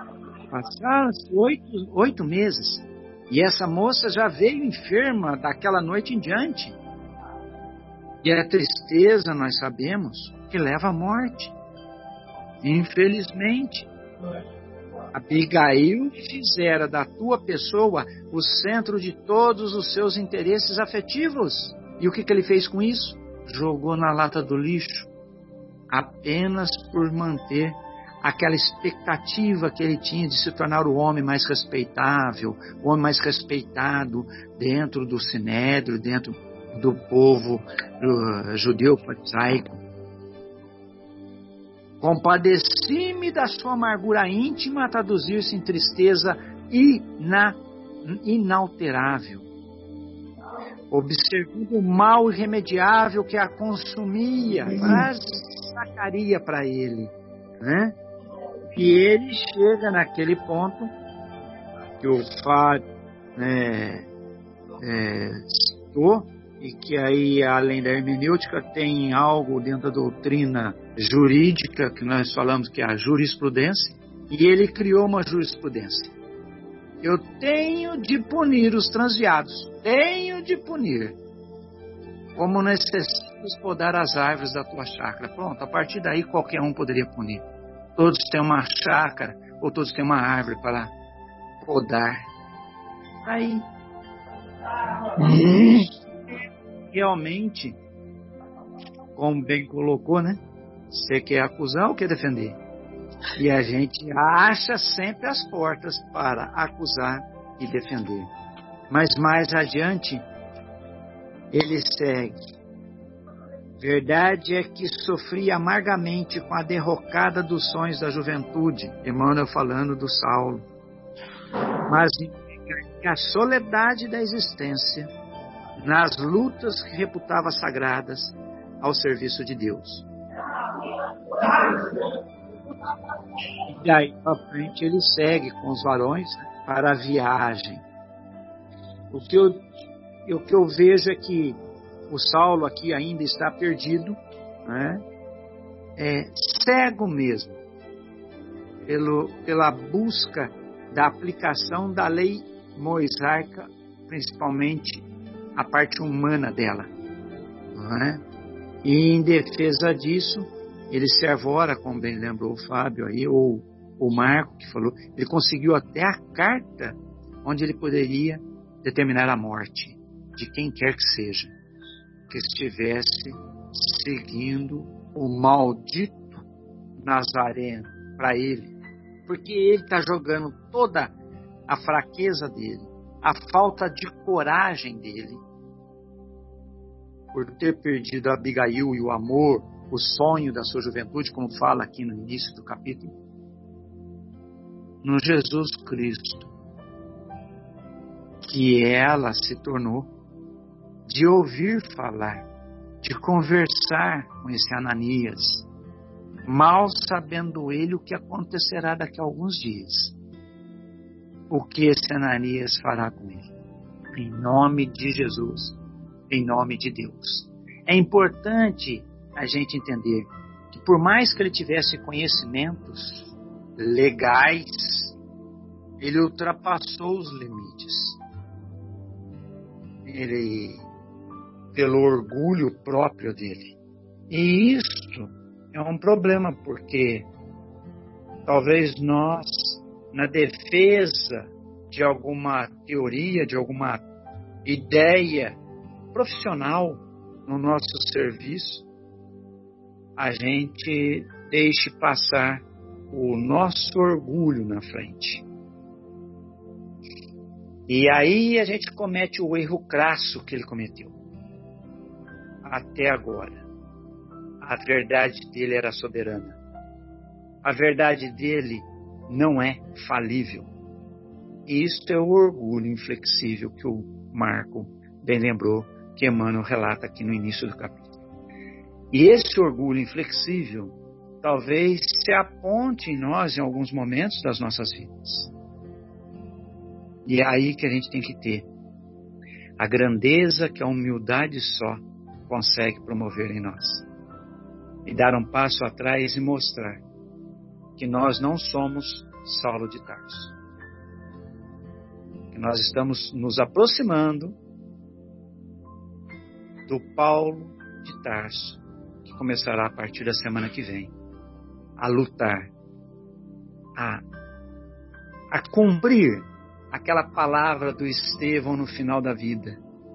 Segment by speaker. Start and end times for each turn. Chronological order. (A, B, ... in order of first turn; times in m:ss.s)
0:00.5-0:06.8 A
0:08.2-0:11.5 A
0:12.6-0:13.9 A
0:15.1-0:25.1 A
0:25.9-0:39.8 A
0:42.0-0:49.5 A
0:50.9-0:58.0 A
0:58.7-1:00.9 A
1:02.0-1:02.8 A
1:03.4-1:04.0 A
1:04.8-1:16.1 A
1:17.0-1:21.2 A
1:22.4-1:27.4 A
1:28.0-1:30.9 A
1:31.6-1:32.3 A
1:33.2-1:33.6 A
1:35.2-1:37.8 A
1:39.1-1:40.4 A
1:40.9-1:42.6 A
1:43.3-1:48.3 A
1:48.9-1:50.2 A
1:51.5-1:52.4 A
1:53.8-2:00.6 A
2:01.9-2:05.1 A
2:05.8-2:10.0 A
2:11.4-2:12.2 A
2:13.7-2:17.8 A
2:19.1-2:19.6 A
2:20.2-2:21.6 A
2:22.1-2:25.0 A
2:26.0-2:27.6 A
2:28.8-2:35.0 A
2:35.5-2:36.9 A
2:37.7-2:38.2 A
2:38.8-2:51.5 A
2:52.3-2:56.4 A
2:57.0-2:58.7 A
2:59.3-3:01.1 A
3:01.7-3:05.4 A
3:07.3-3:13.1 A
3:15.0-3:16.5 A
3:18.4-3:20.1 A
3:21.1-3:22.4 A
3:23.0-3:25.7 A
3:26.4-3:30.1 A
3:31.5-3:33.5 A
3:34.1-3:35.8 A
3:36.3-3:45.1 A
3:46.0-3:48.2 A
3:50.0-3:50.8 A
3:51.7-3:53.8 A
3:54.3-3:57.3 A
3:58.4-4:04.0 A
4:04.6-4:05.6 A
4:06.1-4:08.8 A
4:10.2-4:15.4 A
4:17.9-4:21.1 A
4:22.6-4:23.6 A
4:24.6-4:26.6 A
4:27.6-4:30.7 A
4:31.7-4:38.1 A
4:39.1-4:45.5 A
4:47.2-4:48.7 A
4:49.8-4:54.0 A
4:55.0-4:57.0 A
4:58.0-5:00.5 A
5:02.5-5:04.6 A
5:06.9-5:11.1 A
5:12.0-5:12.7 A
5:14.0-5:14.2 A
5:15.5-5:19.8 A